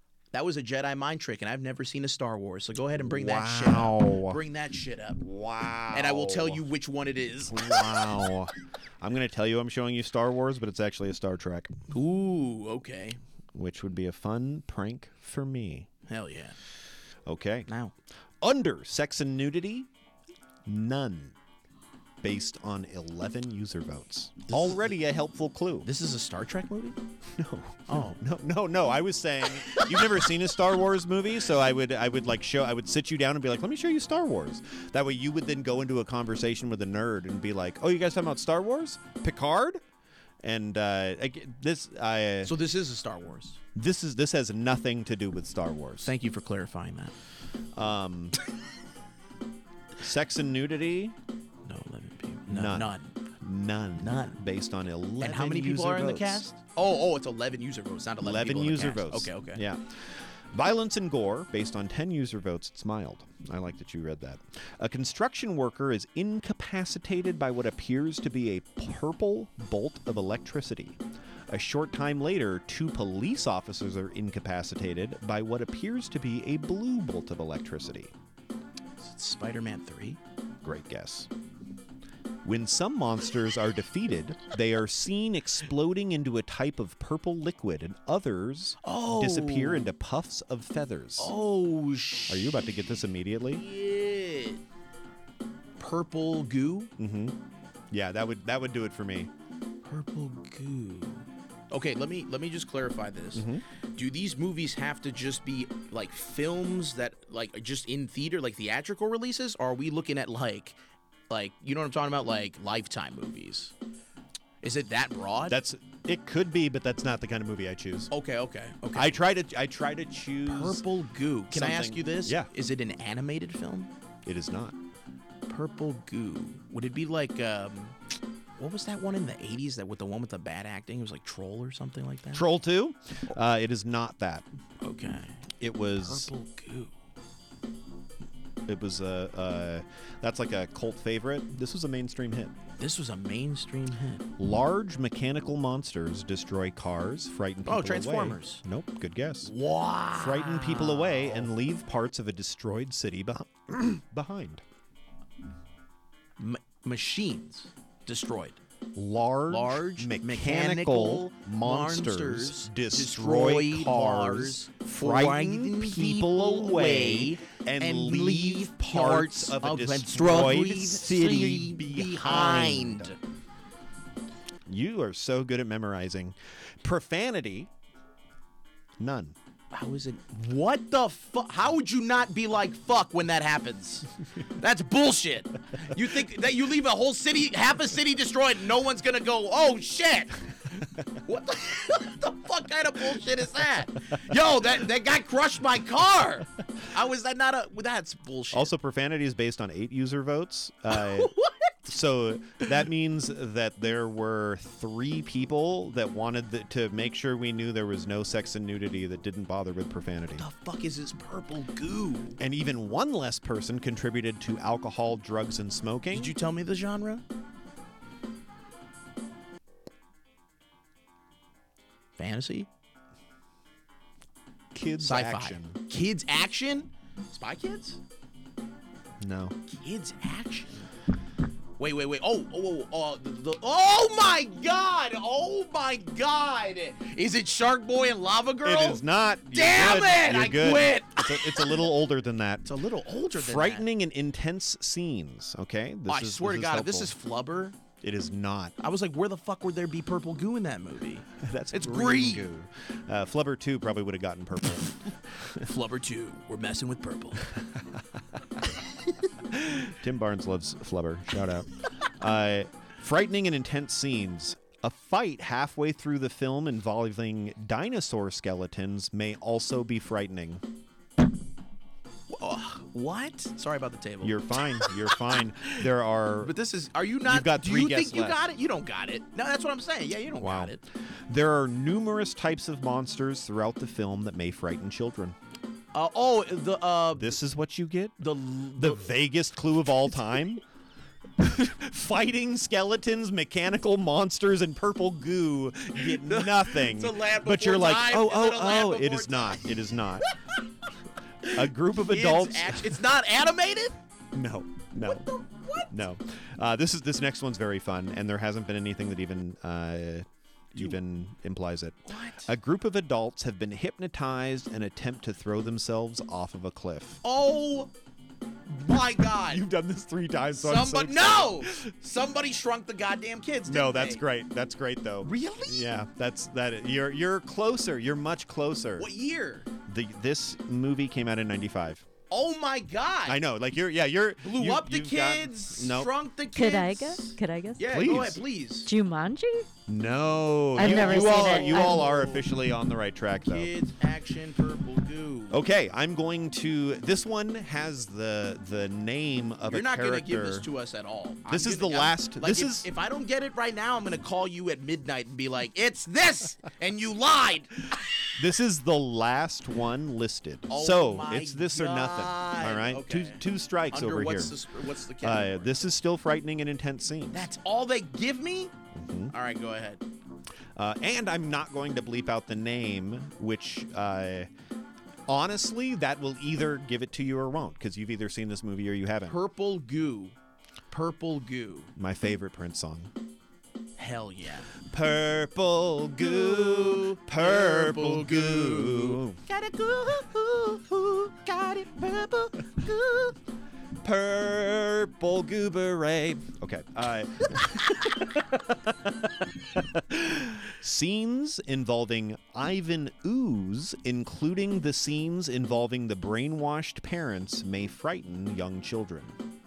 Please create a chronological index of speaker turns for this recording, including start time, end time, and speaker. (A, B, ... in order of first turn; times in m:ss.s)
0:00.3-0:05.2 A
0:03.0-0:04.4 B
0:05.2-0:06.6 B
0:05.9-0:08.0 A
0:07.5-0:11.7 B
0:11.9-0:13.2 A
0:13.5-0:15.9 B
0:16.1-0:16.6 A
0:17.3-0:17.7 B
0:17.7-0:17.9 A
0:18.4-0:19.9 B
0:20.7-0:21.4 B
0:22.2-0:25.9 B
0:24.5-0:24.8 A
0:25.8-0:27.0 A
0:27.4-0:39.8 B
0:27.9-0:28.2 A
0:40.4-0:42.6 B
0:42.4-0:43.6 A
0:43.8-0:46.1 B
0:46.0-0:47.1 A
0:47.7-0:48.4 B
0:50.0-0:51.2 B
0:51.6-0:53.1 A
0:52.5-0:56.4 B
0:54.0-0:54.4 A
0:55.2-0:59.6 A
0:58.2-1:18.1 B
1:19.0-1:20.2 A
1:20.6-1:21.3 B
1:22.4-1:31.3 B
1:28.8-1:29.9 A
1:31.2-1:32.7 A
1:32.3-1:33.6 B
1:33.5-1:34.6 A
1:35.8-1:36.9 A
1:37.0-1:37.4 B
1:37.9-1:39.3 B
1:39.8-1:50.8 A
1:43.4-1:43.6 B
1:51.3-1:53.7 A
1:54.6-1:55.6 A
1:55.5-1:58.1 B
1:58.1-1:59.2 A
1:58.9-2:00.8 B
2:00.5-2:03.9 A
2:01.5-2:02.5 B
2:04.2-2:04.8 B
2:05.5-2:08.0 A
2:08.6-2:12.5 A
2:12.3-2:14.5 B
2:14.8-2:15.4 A
2:15.6-2:16.3 B
2:16.0-2:16.9 A
2:18.7-2:22.6 B
2:22.8-2:24.3 A
2:24.4-2:29.5 B
2:27.7-2:28.6 A
2:29.4-2:31.5 A
2:30.1-2:34.6 B
2:36.4-2:38.6 A
2:39.0-2:53.2 B
2:39.5-2:53.2 A
2:54.7-2:57.7 B
2:59.0-2:59.4 B
2:59.7-3:10.5 A
3:11.1-3:18.7 A
3:18.5-3:21.3 B
3:20.9-3:21.9 A
3:21.9-3:30.4 B
3:30.4-3:32.4 A
3:32.4-3:36.4 B
3:36.1-3:37.2 A
3:42.2-3:42.7 A
3:44.7-3:45.8 B
3:45.0-3:48.0 A
3:49.2-3:49.6 B
3:49.7-3:50.9 A
3:51.8-4:01.8 A
3:58.6-4:02.7 B
4:02.6-4:03.9 A
4:03.3-4:07.1 B
4:06.1-4:07.8 A
4:08.0-4:08.8 B
4:08.8-4:12.5 A
4:11.4-4:15.1 B
4:15.6-4:17.5 A
4:19.5-4:30.6 B
4:32.3-4:34.9 A
4:34.2-4:36.6 B
4:36.4-4:40.8 A
4:37.3-4:38.4 B
4:40.4-4:40.8 B
4:41.3-4:45.4 B
4:45.9-4:47.4 A
4:47.2-4:48.2 B
4:48.2-4:49.1 A
4:48.8-4:50.6 B
4:51.4-5:00.3 B
4:56.0-4:59.7 A
5:01.4-5:03.0 B
5:01.4-5:04.0 A
5:04.3-5:05.3 B
5:05.0-5:05.9 A
5:05.9-5:17.2 B
5:12.1-5:12.5 A
5:17.2-5:17.9 A
5:18.7-5:19.7 A
5:19.5-5:21.8 B
5:20.5-5:24.2 A
5:23.7-5:29.1 B
5:25.2-5:25.9 A
5:29.0-5:29.7 A
5:29.9-5:32.1 B
5:32.3-5:33.4 A
5:33.3-5:36.1 B
5:34.4-5:38.9 A
5:36.5-5:38.2 C
5:37.8-5:38.4 B
5:38.9-5:39.7 C
5:39.9-5:43.7 B
5:40.8-5:42.2 C
5:40.8-5:42.5 A
5:43.4-5:45.6 A
5:45.5-5:50.7 B
5:49.7-5:57.9 A
5:51.5-5:52.9 B
5:58.4-6:04.6 B
6:00.7-6:05.8 A
6:05.2-6:07.5 B
6:07.3-6:08.7 A
6:08.9-6:09.3 B
6:09.3-6:10.0 A
6:10.8-6:14.5 B
6:15.3-6:19.4 B
6:19.3-6:20.4 A
6:20.9-6:21.9 A
6:22.0-6:23.1 B
6:24.0-6:24.7 A
6:24.8-6:29.4 B
6:26.2-6:33.4 A
6:34.0-6:49.4 B